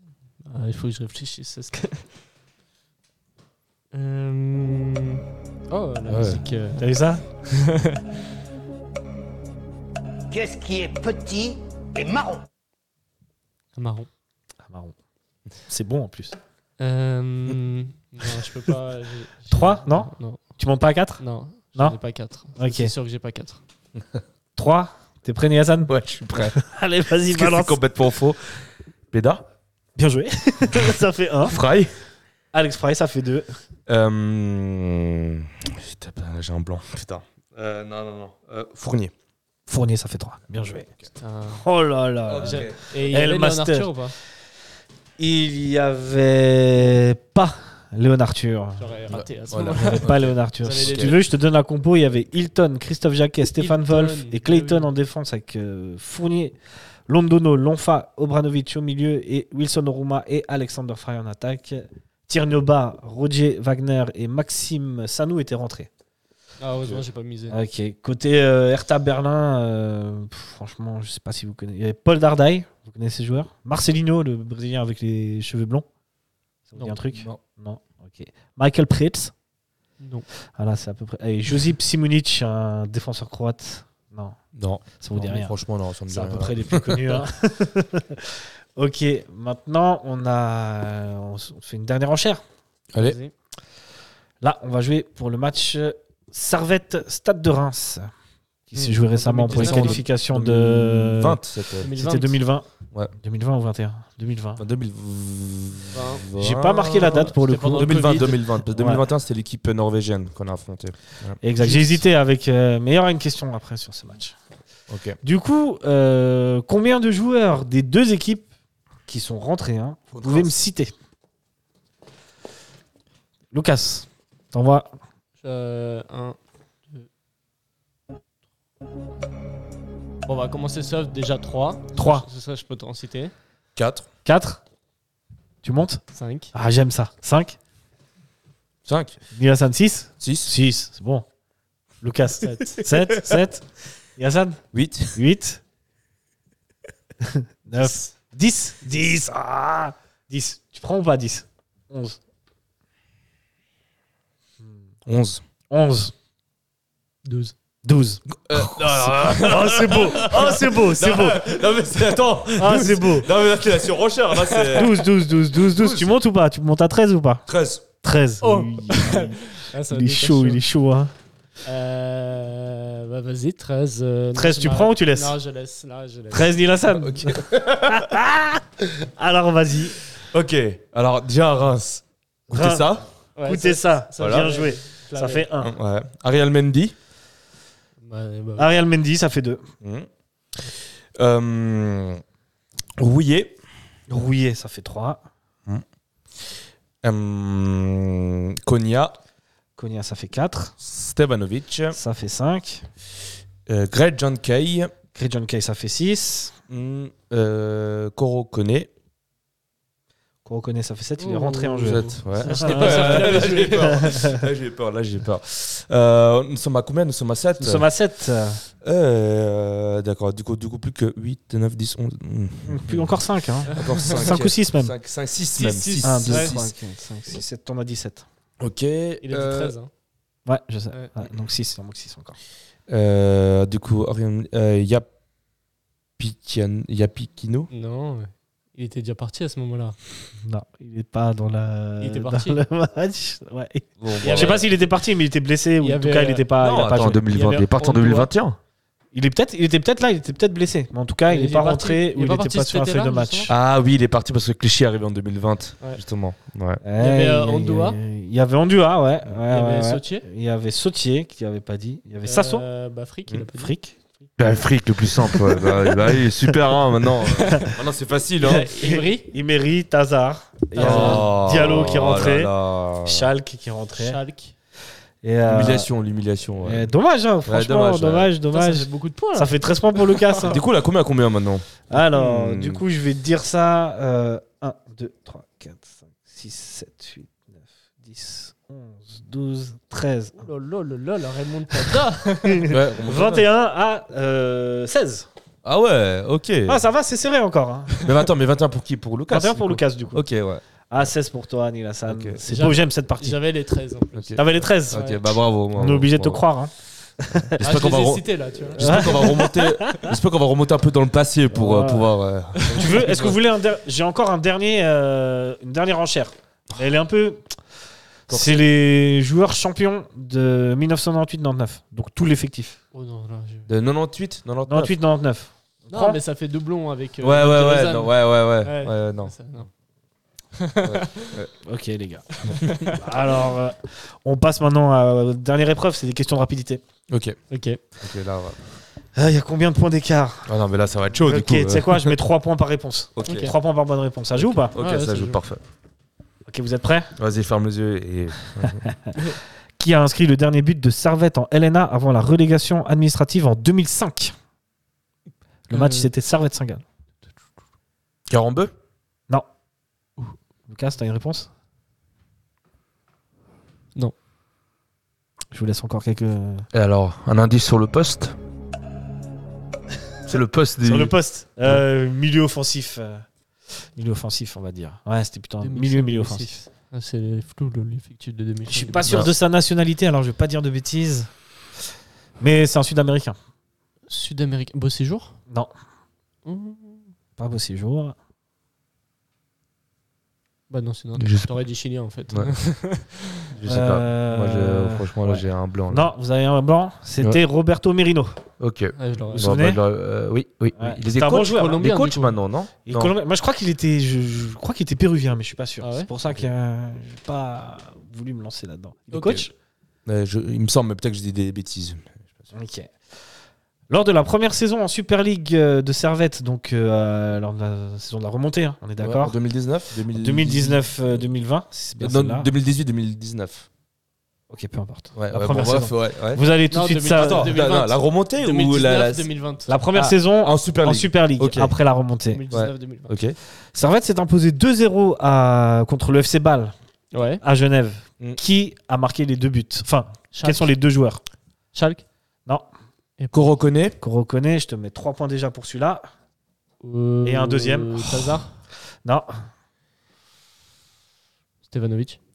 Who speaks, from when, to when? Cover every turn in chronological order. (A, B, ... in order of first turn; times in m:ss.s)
0:00.4-0:02.1 A
0:03.9-0:06.9 A
0:06.1-0:06.4 B
0:06.8-0:07.2 C
0:07.5-0:08.0 A
0:10.3-0:12.4 D
0:13.8-0:14.1 A
0:14.6-0:14.9 C
0:15.6-0:16.4 C
0:16.8-0:20.4 A
0:19.5-0:21.2 C
0:21.2-0:23.6 A
0:22.6-0:22.9 C
0:24.0-0:24.2 B
0:24.6-0:27.8 C
0:25.9-0:26.6 B
0:27.3-0:28.6 B
0:29.1-0:29.4 B
0:30.0-0:31.6 C
0:31.4-0:32.0 B
0:32.5-0:33.6 C
0:33.9-0:39.1 B
0:39.7-0:40.9 C
0:41.2-0:41.6 A
0:41.5-0:43.9 C
0:42.3-0:42.8 B
0:42.4-0:44.1 A
0:45.2-0:49.2 C
0:48.8-0:51.2 A
0:49.1-0:51.1 B
0:49.9-0:56.6 C
0:53.6-0:54.9 A
0:57.1-1:05.9 C
1:06.6-1:07.6 A
1:07.5-1:15.8 C
1:16.7-1:19.3 C
1:17.1-1:17.4 B
1:20.0-1:20.3 A
1:20.5-1:24.4 C
1:24.6-1:27.2 B
1:25.0-1:25.6 C
1:26.1-1:32.4 C
1:33.0-1:33.3 A
1:34.4-1:38.1 C
1:38.7-1:41.4 C
1:38.8-1:40.0 A
1:39.5-1:41.9 B
1:41.8-1:42.4 A
1:42.0-1:42.6 C
1:43.2-1:44.6 C
1:44.6-1:51.8 B
1:45.9-1:46.3 A
1:46.4-1:48.0 C
1:46.9-1:48.4 A
1:48.8-1:49.0 C
1:51.4-1:54.4 C
1:54.9-1:55.2 B
1:55.2-1:58.5 C
1:59.1-2:00.9 C
2:00.1-2:00.6 B
2:03.5-2:04.9 C
2:05.4-2:06.4 A
2:10.2-2:13.3 A
2:12.0-2:12.3 C
2:13.8-2:14.1 B
2:14.2-2:14.6 C
2:15.6-2:16.0 C
2:16.1-2:16.5 A
2:16.5-2:17.6 C
2:18.8-2:19.2 B
2:19.3-2:21.3 C
2:20.2-2:20.5 B
2:22.0-2:24.6 C
2:22.4-2:22.8 A
2:24.7-2:25.2 B
2:25.1-2:25.6 C
2:27.2-2:32.2 C
2:35.1-2:35.4 B
2:35.7-2:36.1 C
2:37.3-2:37.5 A
2:37.8-2:41.5 C
2:38.3-2:45.0 B
2:42.6-2:43.3 C
2:44.5-2:44.8 A
2:44.7-2:47.4 C
2:45.6-2:46.1 B
2:47.5-2:47.8 B
2:48.0-2:51.1 C
2:48.4-2:50.6 A
2:51.6-2:56.6 A
2:54.4-2:55.3 C
2:56.3-2:58.6 C
2:56.9-2:58.1 B
2:59.2-3:00.0 C
3:00.2-3:03.0 B
3:02.5-3:05.7 C
3:03.4-3:05.5 A
3:04.2-3:04.5 B
3:05.6-3:06.9 B
3:08.0-3:08.7 A
3:08.6-3:09.6 C
3:09.8-3:10.1 B
3:10.6-3:12.2 B
3:13.0-3:13.6 B
3:14.1-3:15.2 C
3:17.0-3:19.2 B
3:19.8-3:20.8 C
3:20.8-3:22.0 B
3:21.9-3:22.9 C
3:23.7-3:24.9 B
3:25.1-3:26.6 C
3:26.7-3:28.9 B
3:30.4-3:34.4 C
3:31.2-3:34.1 A
3:31.8-3:37.9 B
3:37.6-3:38.6 C
3:38.8-3:46.7 B
3:42.6-3:44.9 C
3:43.8-3:44.2 A
3:45.6-3:46.6 A
3:46.0-3:48.3 C
3:48.6-3:49.8 B
3:49.2-3:49.9 A
3:50.4-3:52.4 C
3:52.9-3:55.1 B
3:56.2-3:57.7 B
3:57.7-4:00.0 A
4:00.4-4:07.6 C
4:02.0-4:02.6 A
4:04.0-4:04.6 B
4:04.2-4:04.8 A
4:05.8-4:06.5 A
4:06.6-4:08.6 B
4:07.3-4:08.3 A
4:09.1-4:13.5 C
4:11.3-4:13.5 A
4:13.5-4:16.8 B
4:16.8-4:22.6 C
4:17.0-4:18.0 A
4:19.5-4:20.2 A
4:22.2-4:23.7 A
4:23.5-4:24.6 C
4:24.4-4:28.7 B
4:27.4-4:27.7 A
4:28.4-4:32.5 C
4:28.6-4:29.3 A
4:30.8-4:32.0 A
4:30.8-4:33.3 B
4:33.0-4:34.2 C
4:34.0-4:34.5 A
4:35.2-4:35.9 C
4:35.4-4:36.9 B
4:36.6-4:40.6 C
4:37.4-4:38.3 B
4:38.5-4:40.5 A
4:40.4-4:42.8 B
4:41.9-4:50.5 C
4:50.4-4:52.8 A
4:51.7-4:55.3 C
4:52.7-4:53.4 B
4:55.6-4:56.8 B
4:56.6-4:58.0 C
4:58.0-5:00.6 B
4:59.3-5:00.2 C
5:00.9-5:03.4 C
5:02.1-5:02.4 B
5:02.5-5:05.2 A
5:04.1-5:06.4 B
5:04.4-5:05.0 C
5:05.8-5:06.7 C
5:07.2-5:07.6 C
5:07.3-5:13.4 B
5:07.6-5:09.5 A
5:08.8-5:10.0 C
5:11.5-5:12.1 C
5:12.6-5:13.3 A
5:12.7-5:17.6 C
5:18.3-5:22.8 C
5:18.3-5:18.6 B
5:22.9-5:23.7 A
5:23.7-5:24.9 B
5:24.7-5:26.2 C
5:25.9-5:29.7 A
5:27.2-5:29.3 B
5:30.6-5:31.4 A
5:30.8-5:31.5 B
5:31.6-5:36.8 C
5:32.6-5:33.0 A
5:37.1-5:37.4 B
5:37.5-5:37.8 A
5:38.0-5:38.6 B
5:39.2-5:40.5 C
5:40.5-5:42.2 B
5:41.1-5:44.8 C
5:43.2-5:43.5 B
5:43.2-5:43.6 A
5:44.4-5:45.6 B
5:44.8-5:45.4 A
5:46.5-5:47.2 C
5:47.2-5:48.9 B
5:48.6-5:54.4 C
5:55.7-5:56.8 C
5:55.7-5:56.1 A
5:58.3-5:58.7 B
6:00.7-6:01.5 C
6:05.5-6:06.7 C
6:06.7-6:08.4 B
6:10.3-6:11.1 B
6:10.8-6:16.6 C
6:15.6-6:19.3 A
6:18.7-6:21.3 C
6:19.0-6:19.3 B
6:22.4-6:23.4 C
6:24.1-6:25.4 A
6:26.4-6:27.1 A
6:27.4-6:28.1 C
6:30.7-6:33.5 A
6:31.2-6:31.5 B
6:33.5-6:36.1 B
6:33.7-6:38.4 C
6:38.6-6:43.1 B
6:39.0-6:39.6 A
6:39.3-6:39.8 C
6:40.8-6:41.8 C
6:41.3-6:42.4 A
6:42.8-6:49.5 C
6:45.8-6:46.1 A
6:49.1-6:49.4 A
6:50.1-6:52.4 B
6:52.5-6:52.9 C
6:53.9-6:59.4 C
6:59.0-7:00.9 B
7:00.1-7:02.5 C
7:02.0-7:03.7 B
7:04.5-7:07.5 C
7:05.1-7:06.4 B
7:06.7-7:10.0 A
7:07.1-7:09.3 B
7:09.7-7:12.4 C
7:10.0-7:11.7 B
7:12.3-7:13.2 A
7:12.5-7:13.4 B
7:13.7-7:16.7 C
7:17.1-7:17.4 A
7:17.4-7:21.2 C
7:20.3-7:20.7 A
7:21.7-7:22.0 A
7:23.3-7:24.0 B
7:24.0-7:26.0 C
7:26.8-7:28.5 A
7:27.2-7:28.3 C
7:29.0-7:29.3 C
7:31.7-7:32.2 A